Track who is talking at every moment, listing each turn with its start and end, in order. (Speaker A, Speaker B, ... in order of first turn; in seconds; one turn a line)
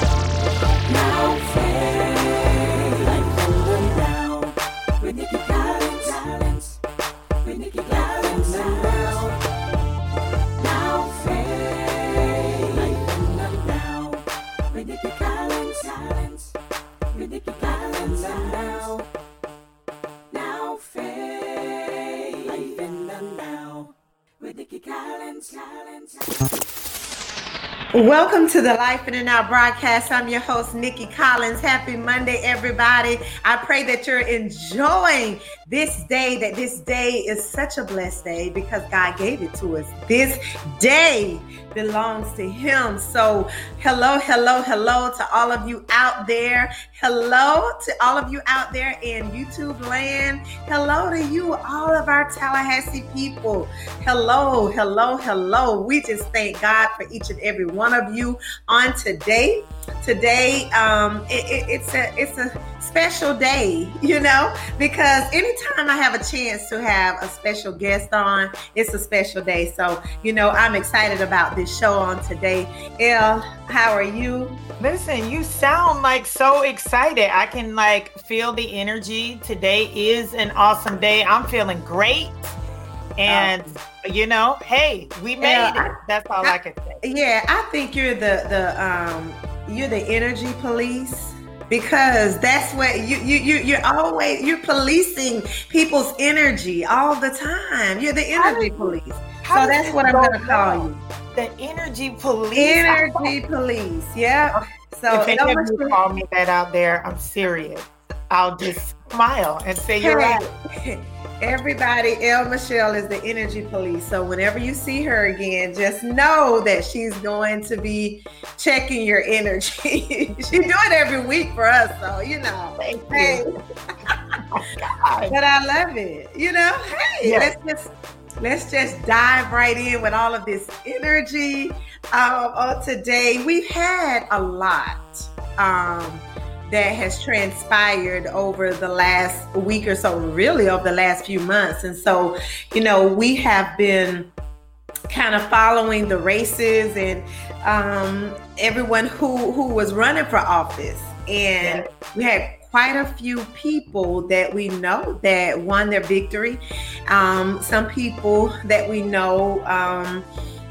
Speaker A: 0.9-6.8
Speaker A: 7.4-9.3
Speaker A: 10.6-16.5
Speaker A: 17.1-19.0
Speaker A: 20.3-26.4
Speaker B: 27.9-74.6
Speaker C: 74.8-82.5
Speaker C: 83.2-87.0
Speaker B: 83.3-83.7
Speaker B: 85.4-101.0
Speaker C: 98.3-100.8
Speaker C: 101.3-103.3
Speaker B: 102.5-106.0
Speaker C: 104.5-110.4
Speaker B: 110.0-123.5
Speaker C: 122.8-123.4
Speaker C: 124.5-125.3
Speaker B: 125.3-144.3
Speaker C: 127.2-127.5
Speaker B: 145.1-160.2
Speaker C: 151.6-151.9